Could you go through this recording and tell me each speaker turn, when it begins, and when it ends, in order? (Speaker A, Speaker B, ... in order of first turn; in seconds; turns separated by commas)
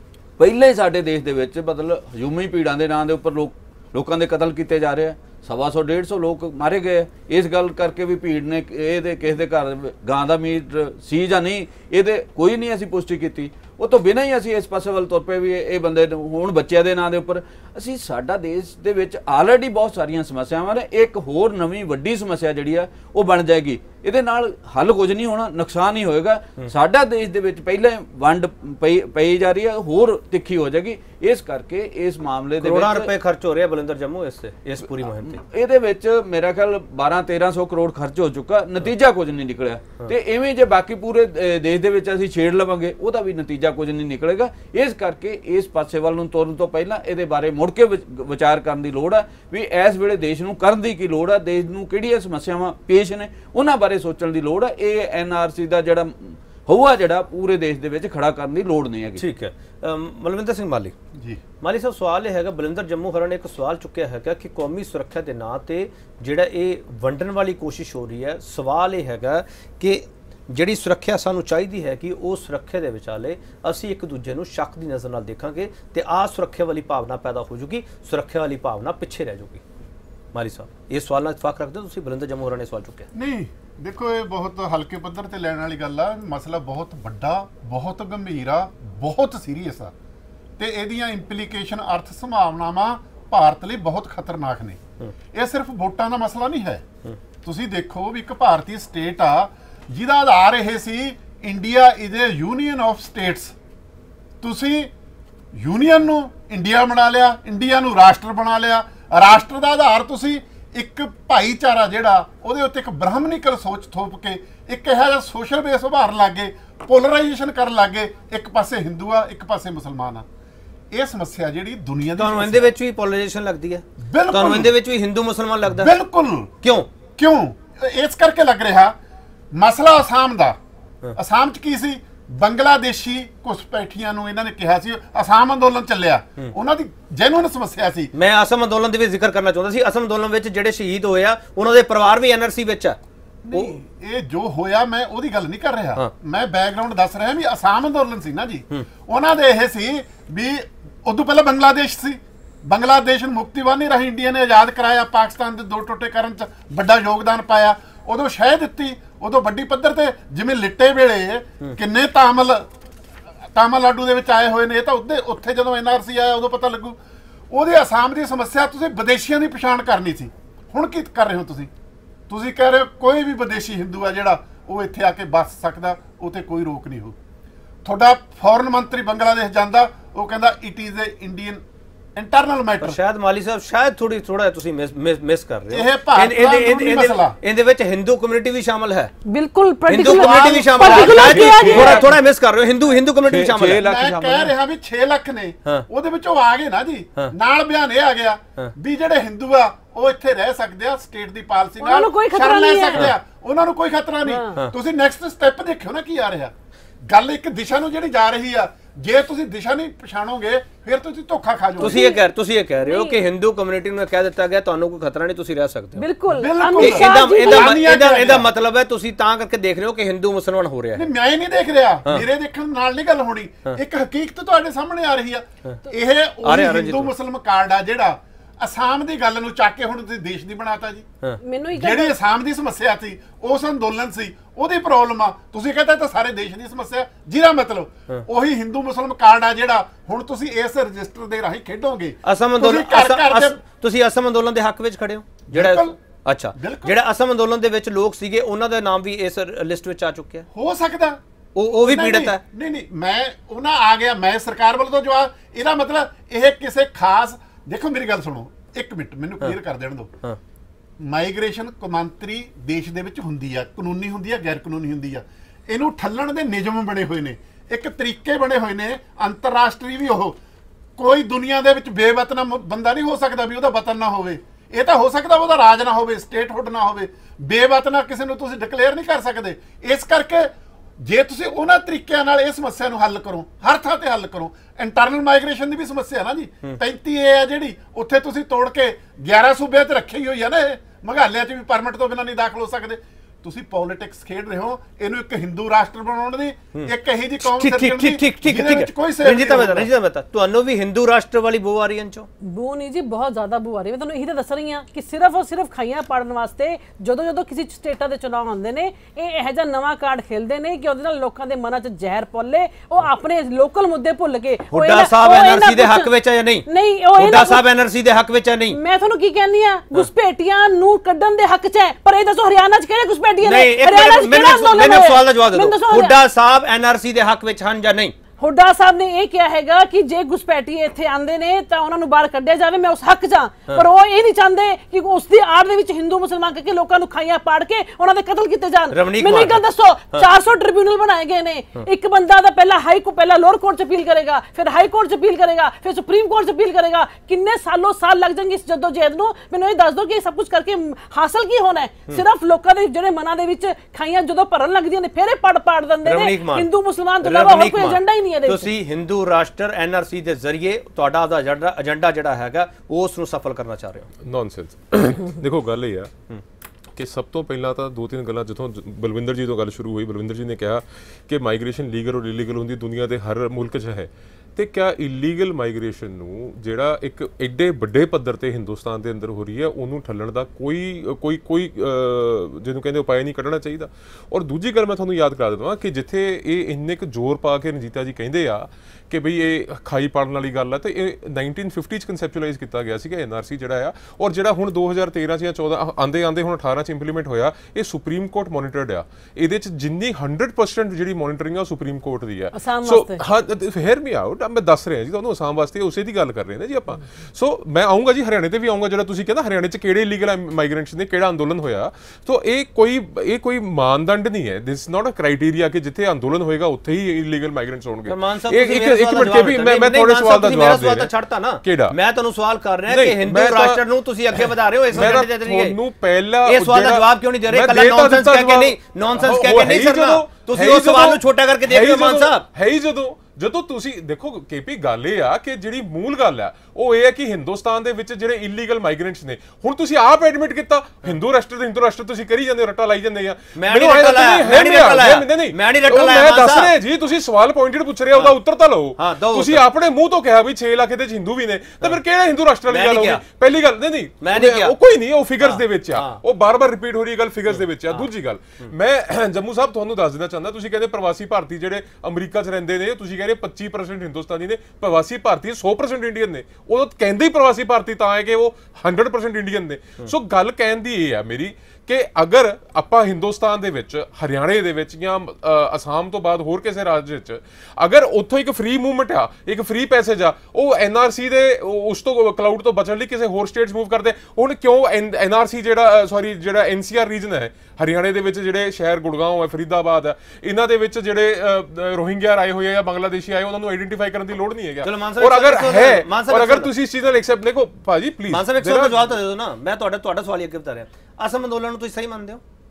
Speaker A: 0.4-33.1, Speaker B: 32.6-35.4, Speaker A: 34.8-59.2, Speaker B: 59.2-61.0, Speaker C: 61.2-61.4, Speaker B: 61.6-79.6, Speaker B: 80.3-83.1, Speaker C: 83.1-89.9, Speaker C: 90.6-94.8, Speaker C: 95.3-96.8, Speaker C: 97.4-103.5, Speaker C: 104.4-104.9, Speaker C: 105.5-120.2, Speaker C: 120.9-122.7, Speaker B: 122.2-125.9, Speaker C: 124.0-124.7, Speaker C: 125.7-126.5, Speaker B: 126.6-126.9, Speaker C: 127.1-128.9, Speaker C: 129.5-130.6, Speaker C: 131.2-138.1, Speaker B: 138.1-143.0, Speaker C: 143.4-162.7, Speaker B: 143.5-143.8, Speaker C: 163.5-167.0, Speaker C: 167.5-171.7, Speaker C: 172.3-177.2, Speaker C: 177.8-181.6, Speaker C: 182.2-183.0, Speaker B: 182.8-189.1, Speaker C: 185.7-187.4, Speaker D: 189.3-192.1, Speaker B: 189.9-193.8, Speaker C: 190.0-191.8, Speaker A: 191.0-192.2, Speaker A: 193.2-194.5, Speaker C: 193.8-206.5, Speaker D: 201.8-203.1, Speaker D: 204.2-204.5, Speaker C: 207.1-212.1, Speaker B: 211.8-216.1, Speaker D: 211.8-212.2, Speaker D: 212.8-213.2, Speaker D: 216.0-217.8, Speaker C: 216.3-218.5, Speaker B: 216.8-221.1, Speaker C: 221.0-231.1, Speaker B: 226.4-227.1, Speaker D: 231.4-232.2, Speaker C: 231.7-243.6, Speaker B: 242.2-250.5, Speaker C: 245.5-246.0, Speaker C: 246.6-247.0, Speaker C: 250.5-251.2, Speaker B: 251.6-252.4, Speaker C: 251.8-260.1, Speaker C: 261.0-270.4, Speaker C: 271.0-299.9, Speaker B: 296.8-302.3, Speaker D: 302.4-316.1, Speaker B: 314.7-318.8, Speaker D: 316.7-317.6, Speaker D: 318.7-326.2, Speaker B: 323.4-328.2, Speaker D: 328.4-358.7, Speaker B: 338.9-339.6, Speaker B: 356.0-356.7, Speaker B: 357.2-364.1, Speaker E: 364.2-366.1, Speaker E: 367.0-421.1, Speaker D: 402.5-403.2, Speaker B: 418.1-425.8, Speaker E: 421.6-422.0, Speaker E: 422.9-423.8, Speaker E: 424.4-499.1, Speaker B: 426.4-432.5, Speaker B: 443.6-446.7, Speaker B: 449.0-449.6, Speaker B: 452.7-453.2, Speaker B: 454.2-454.8, Speaker B: 455.4-456.2, Speaker B: 457.5-458.1, Speaker B: 494.8-496.7, Speaker B: 498.3-502.4